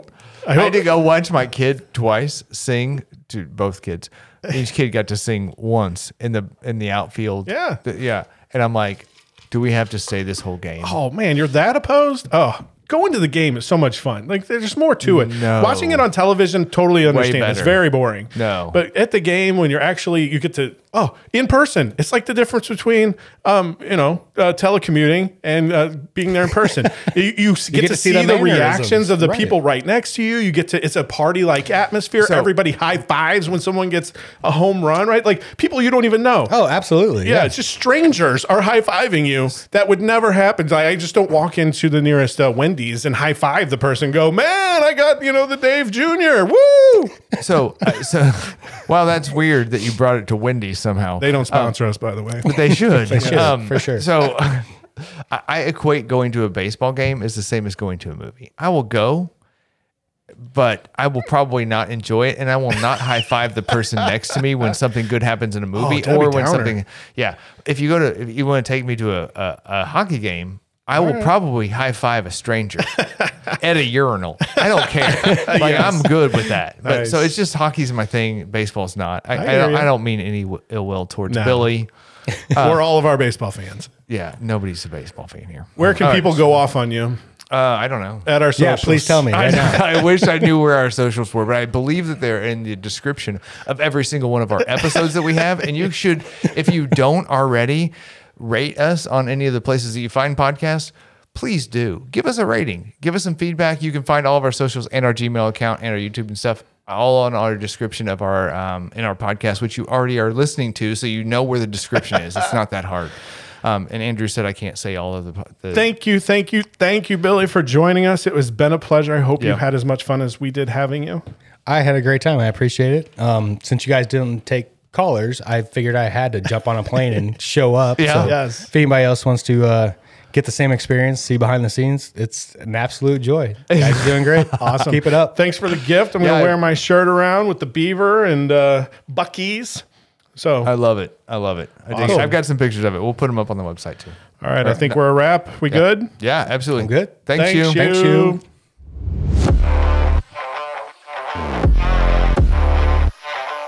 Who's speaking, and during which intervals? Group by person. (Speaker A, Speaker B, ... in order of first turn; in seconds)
Speaker A: 0.4-0.9, 7.5-7.8, 10.8-36.5, 37.2-47.2, 51.2-53.5, 65.7-66.8, 71.0-71.3, 74.7-77.3, 79.3-79.9, 81.3-81.7, 82.5-83.9, 85.8-87.2, 88.2-89.3, 115.7-121.2, 128.2-128.7, 134.5-139.8, 140.3-140.7, 141.9-142.3, 144.4-146.1, 147.3-148.4
Speaker B: 0.5-11.0, 15.0-16.0, 17.0-17.8, 18.3-18.8, 32.2-32.5, 47.4-51.7, 52.4-59.3, 60.4-82.8, 84.1-86.4, 87.5-88.3, 89.3-115.9, 128.0-128.3, 133.7-134.5, 136.2-136.6, 140.6-145.0, 145.7-148.2
Speaker C: 27.7-29.5, 36.5-37.5, 53.1-54.0, 88.6-90.1, 121.7-135.4, 142.0-142.3, 146.8-148.4